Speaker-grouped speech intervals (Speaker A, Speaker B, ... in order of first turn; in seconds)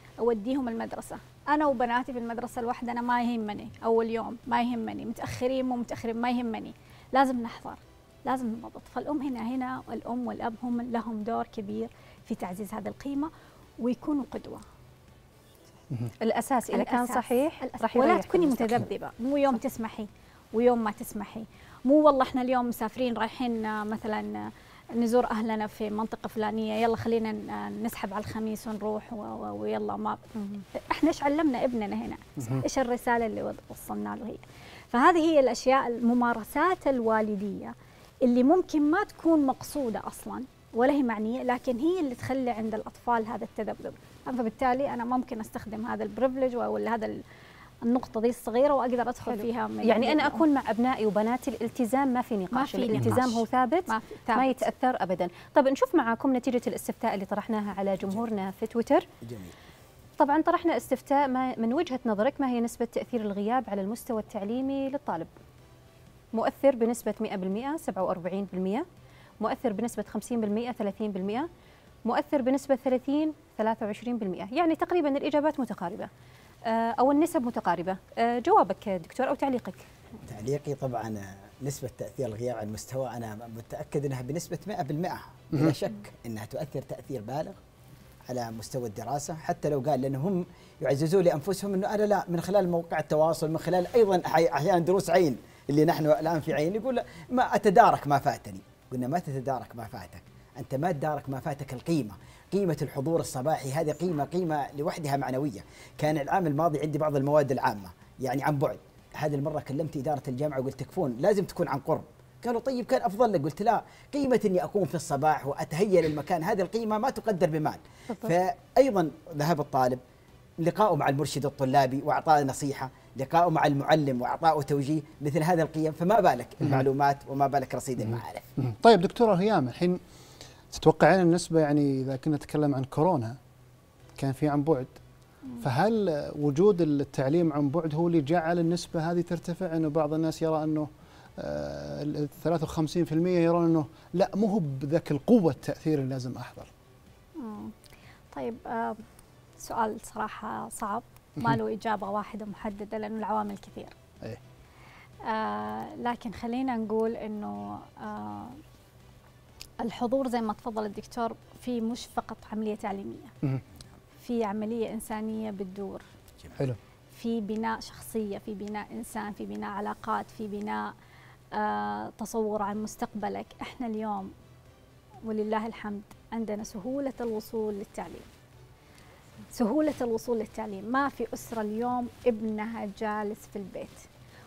Speaker A: 0.2-14.6, 16.7-30.2, 30.8-47.2, 47.9-50.4, 52.5-54.7, 147.4-147.7, 148.3-149.0, 149.6-153.9, 155.2-158.6, 159.8-163.3, 164.2-166.0, 167.1-170.9, 171.5-174.3, 175.3-178.3, 179.5-184.1
Speaker B: 16.2-18.9, 49.2-59.1, 60.2-65.3, 66.3-68.9, 69.4-71.5, 72.1-76.1, 76.7-79.8
Speaker C: 32.4-32.6, 128.0-130.0, 130.7-133.4, 134.2-135.0, 135.6-146.7
Speaker D: 59.2-59.5, 80.2-87.6, 88.3-120.0, 120.6-128.5